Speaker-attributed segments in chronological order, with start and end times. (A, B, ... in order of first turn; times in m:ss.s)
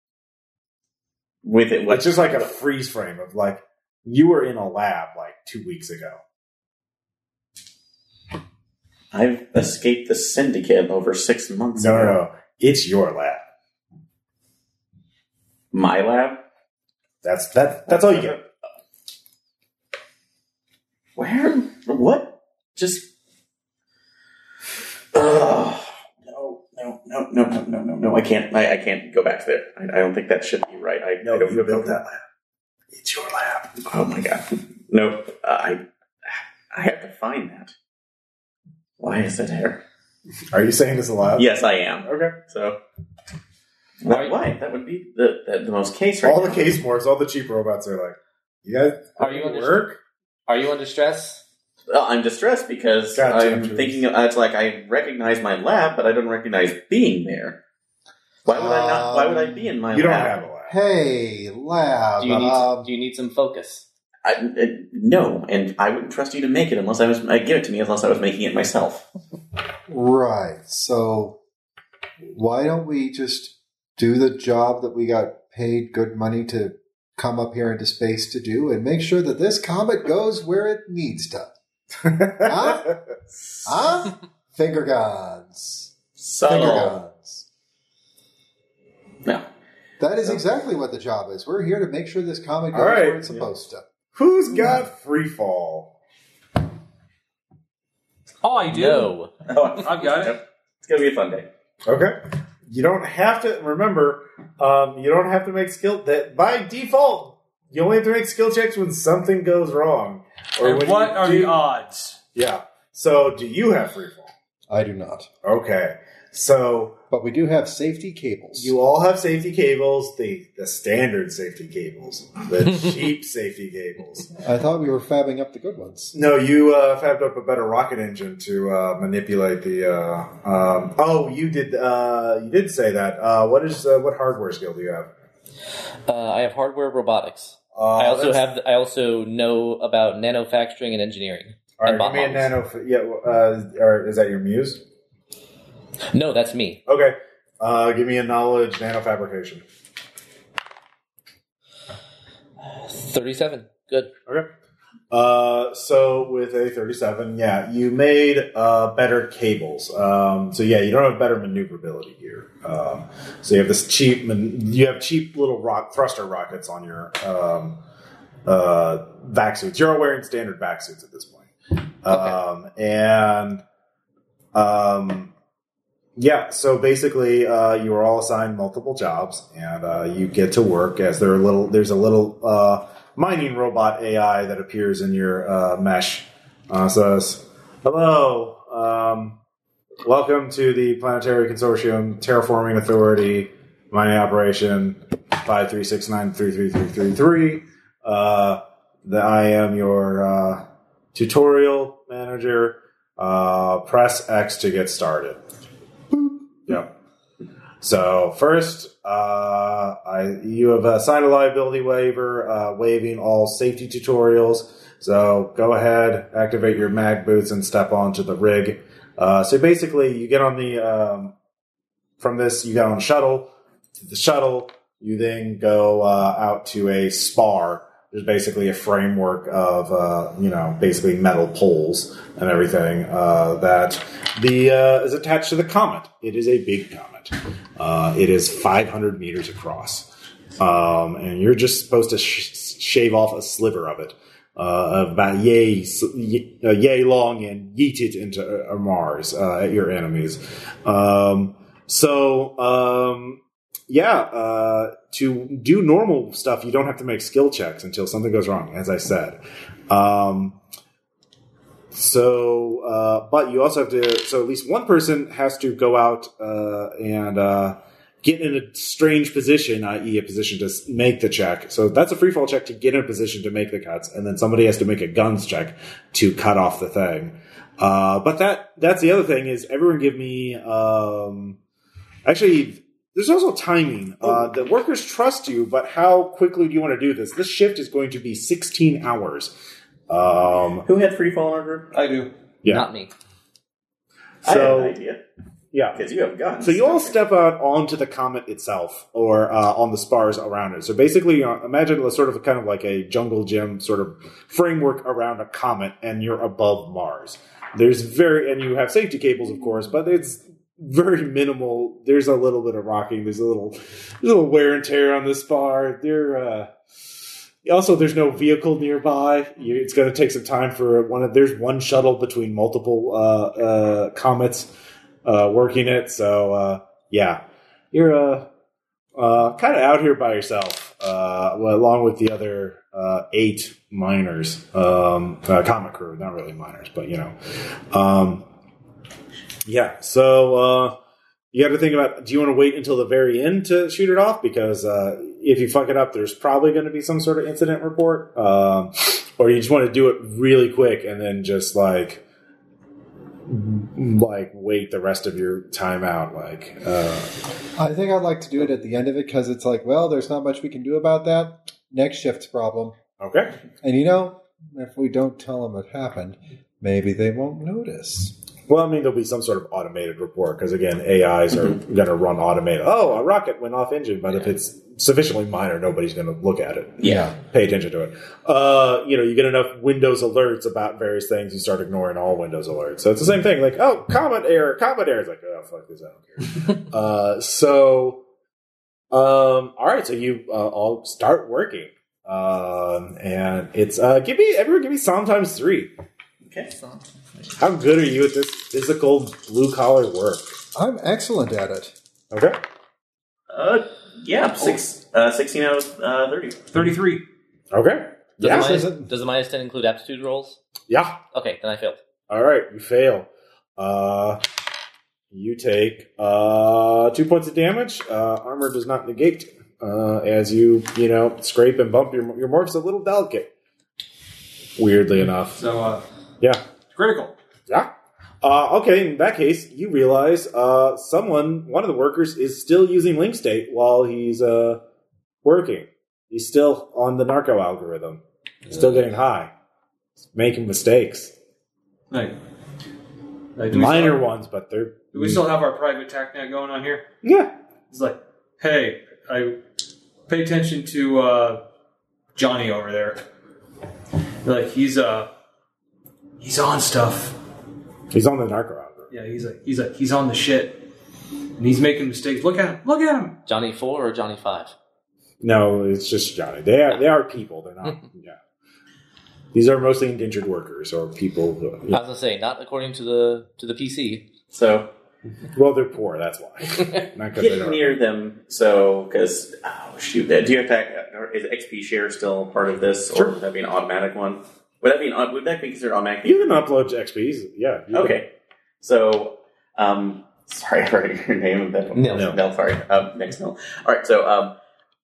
0:01.4-0:02.5 A
0:01.9-0:06.2 B
0:09.1-0:12.2 A
0:11.8-0:13.4 B
0:15.7-0:16.4 A
0:17.2-0:18.4 B
0:17.9-0:18.4 A
0:21.2-0:23.1 A
0:25.1-0:32.0 A
0:31.2-0:32.2 B
0:32.9-0:33.8 B
0:33.8-0:37.7 A
0:39.0-0:39.8 A
0:40.5-0:41.5 B
0:41.4-0:42.8 A
0:42.0-0:42.4 B
0:44.0-0:46.7 A
0:44.1-0:44.4 C
0:46.2-0:50.0 B
0:49.2-0:49.9 C
0:50.5-0:51.4 C
0:51.9-0:57.6 A
0:53.1-0:54.0 B
0:58.4-1:00.4 A
0:58.5-0:59.7 D
0:59.9-1:00.8 B
1:00.7-1:02.9 D
1:02.2-1:03.8 C
1:04.2-1:09.0 A
1:09.9-1:11.4 D
1:12.3-1:21.5 D
1:22.0-1:23.0 B
1:22.4-1:22.9 D
1:23.6-1:25.9 D
1:26.2-1:27.0 A
1:26.4-1:27.4 D
1:30.0-1:33.8 D
1:32.7-1:33.2 B
1:34.1-1:35.9 B
1:38.4-1:39.1 E
1:38.7-1:39.3 C
1:39.5-1:41.5 A
1:39.7-1:40.4 E
1:41.8-1:42.2 B
1:42.7-1:51.6 B
1:50.6-1:52.2 E
1:52.3-1:54.3 B
1:54.7-1:55.3 D
1:55.4-1:57.0 B
1:57.1-1:58.7 D
1:58.6-2:04.3 B
2:04.3-2:06.1 D
2:06.1-2:15.1 B
2:16.1-2:22.5 C
2:17.7-2:18.4 B
2:21.8-2:24.8 B
2:26.1-2:26.8 C
2:26.8-2:29.6 B
2:32.6-2:34.1 C
2:35.1-2:47.8 B
2:48.4-2:51.5 B
2:52.0-2:53.6 B
2:54.5-2:55.3 B
2:56.2-3:09.4 B
3:10.0-3:20.6 B
3:21.1-3:25.4 B
3:27.8-3:41.3 B
3:42.2-4:20.6 B
4:21.9-4:41.6 B
4:42.2-4:49.5 B
4:50.1-4:50.9 B
4:50.8-4:52.0 A
4:51.9-4:52.3 E
4:52.7-4:53.1 C
4:54.4-4:55.0 B
4:54.4-4:55.2 A
4:55.7-4:56.0 B
4:55.9-4:57.2 A
4:56.6-5:16.7 B
5:17.6-5:24.7 B
5:25.2-5:28.5 B
5:29.2-5:38.5 B
5:39.6-5:41.0 B
5:41.5-5:52.2 B
5:53.5-5:57.3 B
5:57.8-6:03.0 D
6:03.2-6:03.5 B
6:03.8-6:08.3 D
6:08.7-6:28.2 B
6:17.0-6:17.3 D
6:29.1-6:35.9 B
6:36.4-6:36.7 A
6:37.6-6:40.6 B
6:40.7-6:41.9 D
6:42.3-6:42.6 B
6:43.5-6:46.6 A
6:46.7-6:47.2 E
6:47.7-6:48.8 B
6:48.4-6:50.6 C
6:48.4-6:49.1 D
6:50.9-6:51.2 B
6:51.3-6:52.0 C
6:52.3-6:54.4 B
6:55.3-7:03.5 B
7:04.8-7:05.6 B
7:05.5-7:06.0 E
7:06.9-7:07.3 E
7:08.4-7:14.8 B
7:15.4-7:19.5 B
7:20.3-7:21.3 B
7:22.1-7:22.4 E
7:23.6-7:24.2 E
7:23.7-7:25.4 B
7:25.1-7:27.0 E
7:27.2-7:27.5 B
7:27.9-7:29.6 E
7:30.3-7:31.6 E
7:32.3-7:33.2 E
7:34.4-7:35.3 E
7:36.4-7:37.4 E
7:38.1-7:39.1 B
7:39.1-7:40.9 E
7:41.6-7:43.4 E
7:43.4-7:44.7 C
7:45.4-7:48.4 B
7:49.5-7:52.0 B
7:51.9-7:54.3 C
7:54.5-7:54.9 A
7:55.5-7:58.0 B
7:57.4-8:06.6 A
8:06.2-8:08.2 B
8:07.9-8:08.3 A
8:08.8-8:14.5 A
8:11.9-8:12.3 C
8:12.1-8:12.4 B